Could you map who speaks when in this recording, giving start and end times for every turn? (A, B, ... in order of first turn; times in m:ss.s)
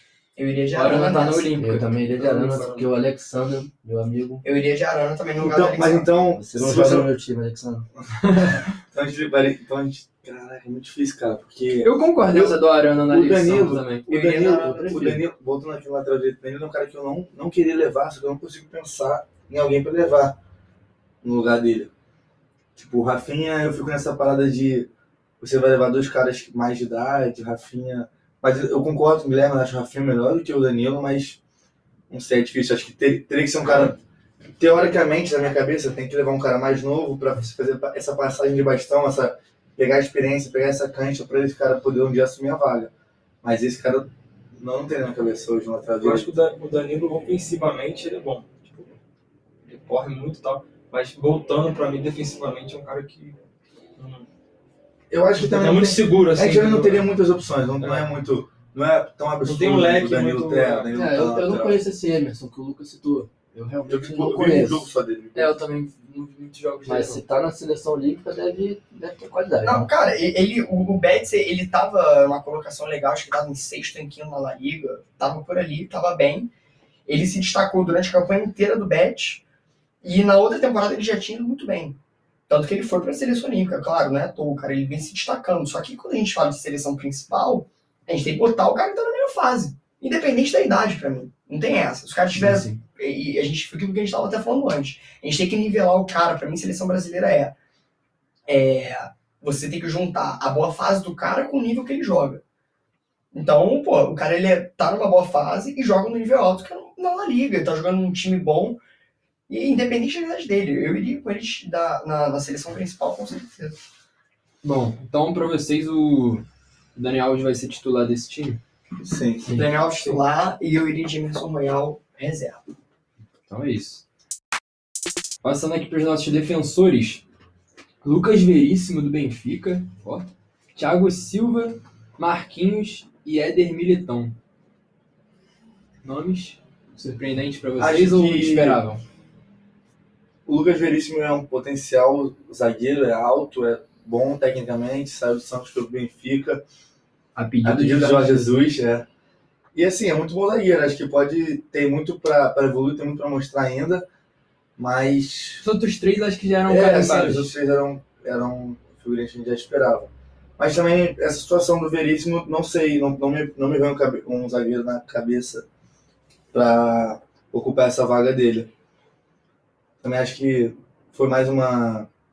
0:00.4-0:01.5 A
0:00.7-0:02.0 B
0:01.6-0:04.4 C
0:04.4-0:06.1 A
0:05.4-0:07.1 D
0:06.3-0:07.9 C
0:08.4-0:20.4 D
0:11.8-0:14.0 B
0:14.1-0:15.1 A
0:14.6-0:15.2 C
0:21.2-0:21.9 D
0:22.8-0:24.9 D
0:25.4-0:31.4 D
0:32.1-0:34.0 D
0:34.6-0:42.9 D
0:43.4-0:46.3 D
0:46.0-0:48.9 E
0:49.6-0:53.4 E
0:54.0-0:54.2 E
0:55.1-1:01.8 D
0:55.4-0:57.1 E
0:57.8-0:58.1 E
0:59.4-1:01.0 E
1:00.9-1:04.9 C
1:03.9-1:05.6 D
1:05.3-1:07.2 B
1:06.8-1:09.9 C
1:09.6-1:16.5 A
1:17.0-1:19.4 A
1:20.0-1:37.5 A
1:32.4-1:32.7 C
1:38.5-1:42.4 A
1:43.3-1:48.8 A
1:49.5-1:53.8 A
1:54.6-1:56.4 B
1:56.9-1:58.6 B
1:59.0-1:59.5 D
1:59.5-2:02.6 A
2:03.5-2:04.0 B
2:05.4-2:07.2 B
2:08.0-2:14.4 B
2:16.0-2:19.0 B
2:17.8-2:18.8 D
2:20.4-2:26.6 D
2:27.4-2:28.6 B
2:27.6-2:29.0 D
2:29.7-2:34.0 D
2:34.8-2:35.6 D
2:35.6-2:37.5 B
2:36.6-2:45.6 D
2:46.5-2:48.7 D
2:50.0-2:52.1 D